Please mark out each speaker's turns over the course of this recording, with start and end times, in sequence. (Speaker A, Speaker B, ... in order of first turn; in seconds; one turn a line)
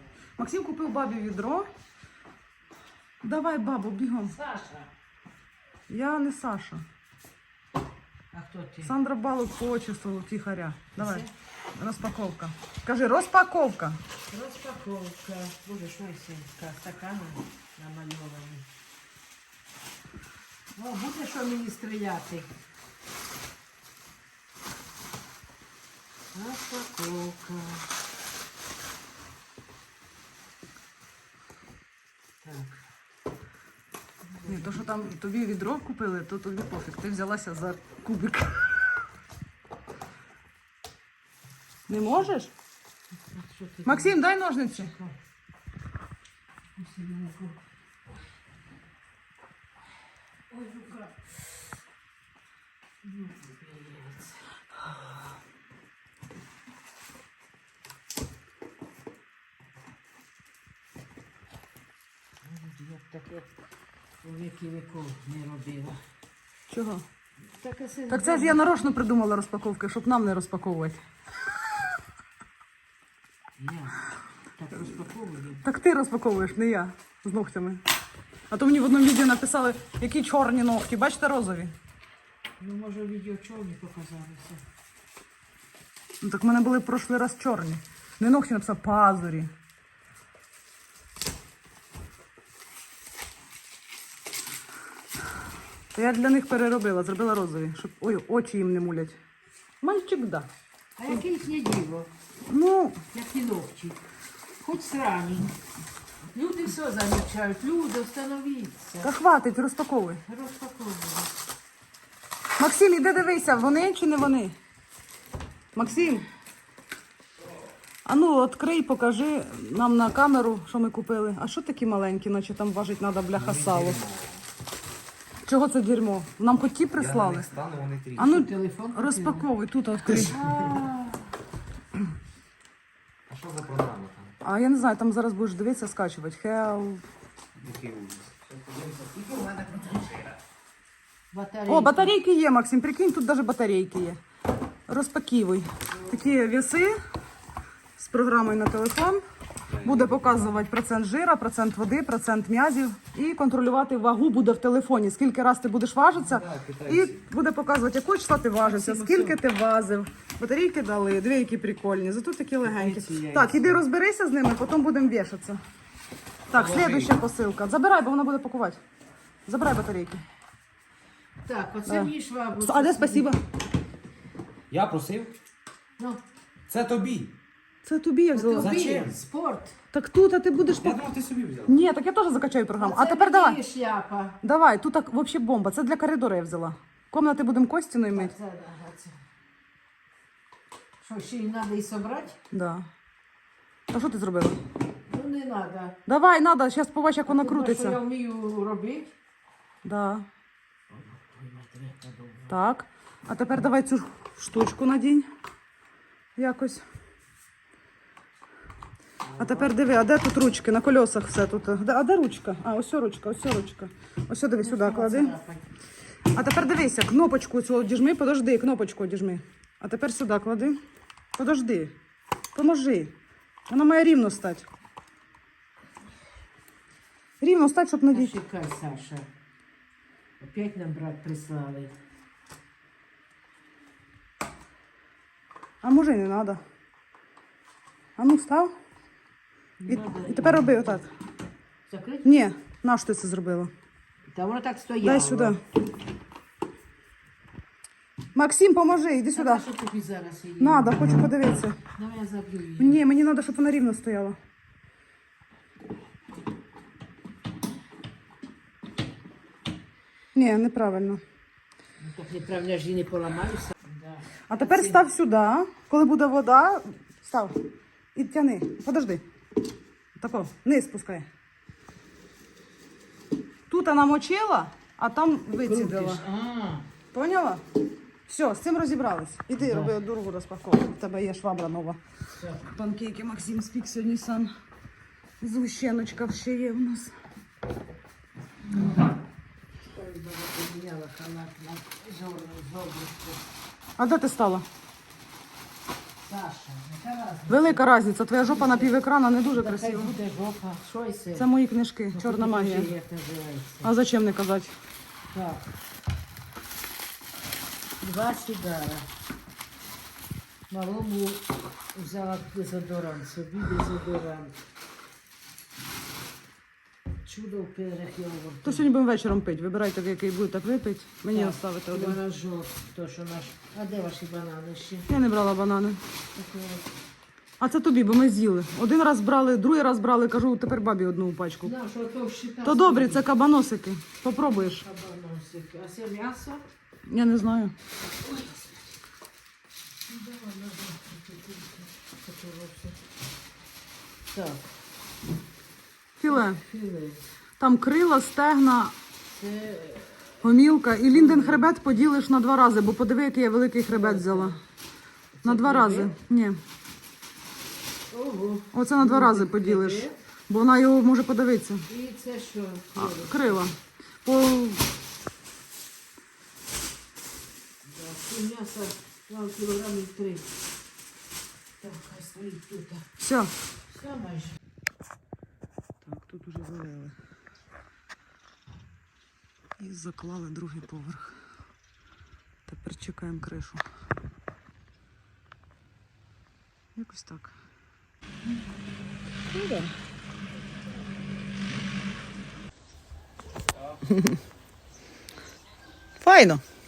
Speaker A: 0.4-1.7
Speaker A: 3.2-4.3
Speaker B: 4.3-4.9
Speaker A: 5.9-6.8
Speaker B: 8.3-8.9
Speaker A: 8.8-11.2
Speaker B: 11.0-11.3
Speaker A: 11.8-14.0
Speaker B: 14.3-18.6
Speaker B: 20.7-22.5
Speaker B: 26.3-27.9
Speaker B: 32.4-32.8
Speaker B: 34.4-35.0
Speaker A: 34.5-39.0
Speaker A: 41.9-42.5
Speaker B: 43.3-44.2
Speaker A: 43.9-44.9
Speaker B: 44.7-45.2
Speaker B: 46.7-47.6
Speaker B: 50.5-51.4
Speaker B: 53.0-54.5
Speaker B: 62.4-63.5
Speaker B: 64.2-66.0
Speaker A: 66.7-67.0
Speaker B: 67.6-68.6
Speaker A: 68.1-71.0
Speaker B: 73.6-74.0
Speaker B: 74.5-75.6
Speaker A: 75.6-77.8
Speaker A: 78.5-81.7
Speaker B: 82.6-84.6
Speaker A: 86.2-89.5
Speaker A: 95.9-99.2
Speaker A: 99.8-100.5
Speaker B: 101.0-102.1
Speaker A: 102.5-103.0
Speaker B: 103.1-104.0
Speaker B: 104.6-105.5
Speaker B: 106.3-109.1
Speaker A: 109.0-110.2
Speaker B: 110.2-111.3
Speaker A: 112.6-114.5
Speaker A: 115.7-116.3
Speaker A: 118.0-124.0
Speaker C: 123.3-124.4
Speaker A: 125.5-127.5
Speaker C: 127.0-128.3
Speaker B: 128.2-129.5
Speaker A: 128.2-130.4
Speaker B: 130.1-131.1
Speaker C: 130.1-130.6
Speaker C: 133.3-134.3
Speaker A: 134.4-137.0
Speaker C: 137.6-140.3
Speaker B: 141.3-142.1
Speaker A: 141.7-144.2
Speaker A: 144.9-146.9
Speaker A: 148.0-149.2
Speaker C: 149.7-150.5
Speaker A: 149.8-165.6
Speaker C: 156.2-157.2
Speaker B: 158.6-159.4
Speaker C: 162.7-163.8
Speaker A: 166.5-168.8
Speaker C: 166.5-167.1
Speaker A: 169.5-170.2
Speaker B: 171.4-173.4
Speaker A: 171.9-173.4
Speaker C: 174.7-175.3
Speaker C: 176.7-177.3
Speaker A: 177.8-178.8
Speaker B: 178.3-179.8
Speaker C: 178.6-179.2
Speaker A: 179.9-181.0
Speaker C: 180.8-181.8
Speaker A: 181.7-183.6
Speaker B: 182.8-184.4
Speaker A: 184.4-188.3
Speaker B: 188.1-189.2
Speaker B: 191.0-192.4
Speaker A: 192.5-192.9
Speaker A: 193.9-194.6
Speaker B: 195.1-196.0
Speaker A: 196.1-198.0
Speaker B: 197.3-199.1
Speaker A: 199.8-200.2
Speaker B: 200.9-202.5
Speaker A: 202.5-205.3
Speaker A: 206.3-206.8
Speaker A: 209.4-215.3
Speaker B: 214.6-215.6
Speaker A: 216.3-220.8
Speaker A: 221.4-221.9
Speaker A: 222.5-223.1
Speaker A: 223.7-224.7
Speaker A: 227.4-228.3
Speaker B: 228.1-229.3
Speaker B: 230.4-231.9
Speaker A: 235.8-236.6
Speaker A: 238.2-238.7
Speaker B: 239.8-241.1
Speaker A: 239.9-241.1
Speaker B: 241.9-242.3
Speaker A: 242.2-243.7
Speaker B: 244.3-245.6
Speaker A: 245.0-245.6
Speaker A: 248.3-249.6
Speaker B: 249.3-251.3
Speaker A: 250.6-251.8
Speaker B: 251.8-253.0
Speaker A: 252.8-254.3
Speaker A: 260.3-261.2
Speaker B: 262.0-265.0
Speaker A: 264.5-267.6
Speaker A: 268.1-269.2
Speaker A: 270.2-271.2
Speaker A: 273.7-276.2
Speaker B: 275.6-276.9
Speaker A: 277.1-277.6
Speaker A: 278.3-282.0
Speaker B: 279.6-280.0
Speaker B: 282.3-282.6
Speaker A: 282.6-284.5
Speaker A: 285.4-287.1
Speaker B: 289.9-293.4
Speaker A: 294.0-294.6
Speaker B: 296.2-297.8
Speaker A: 297.5-300.1
Speaker B: 298.4-301.5
Speaker A: 301.4-302.9
Speaker B: 302.1-303.9
Speaker A: 303.8-304.7
Speaker B: 305.3-305.6
Speaker B: 308.0-309.1
Speaker B: 310.7-314.5
Speaker B: 317.2-318.9
Speaker A: 318.6-322.2
Speaker B: 321.3-325.1
Speaker A: 325.1-326.0
Speaker B: 326.3-326.9
Speaker A: 327.6-331.7
Speaker B: 331.6-333.2
Speaker A: 332.6-334.8
Speaker B: 334.4-336.6
Speaker A: 337.1-337.7
Speaker B: 338.2-338.9
Speaker B: 340.0-343.0
Speaker B: 344.3-344.7
Speaker A: 346.2-346.6
Speaker B: 346.3-347.3
Speaker A: 347.6-348.9
Speaker B: 349.3-350.3
Speaker A: 350.4-354.6
Speaker B: 351.1-351.7
Speaker B: 353.9-354.6
Speaker B: 355.4-356.1
Speaker A: 355.4-356.6
Speaker B: 358.1-360.1
Speaker A: 358.7-361.8
Speaker B: 361.9-363.7
Speaker A: 362.9-364.9
Speaker B: 367.8-370.5
Speaker B: 371.8-373.1
Speaker A: 373.2-373.5
Speaker B: 373.9-374.5
Speaker A: 376.0-377.1
Speaker A: 379.8-381.3
Speaker A: 382.7-383.8
Speaker A: 386.9-387.5
Speaker A: 396.2-396.6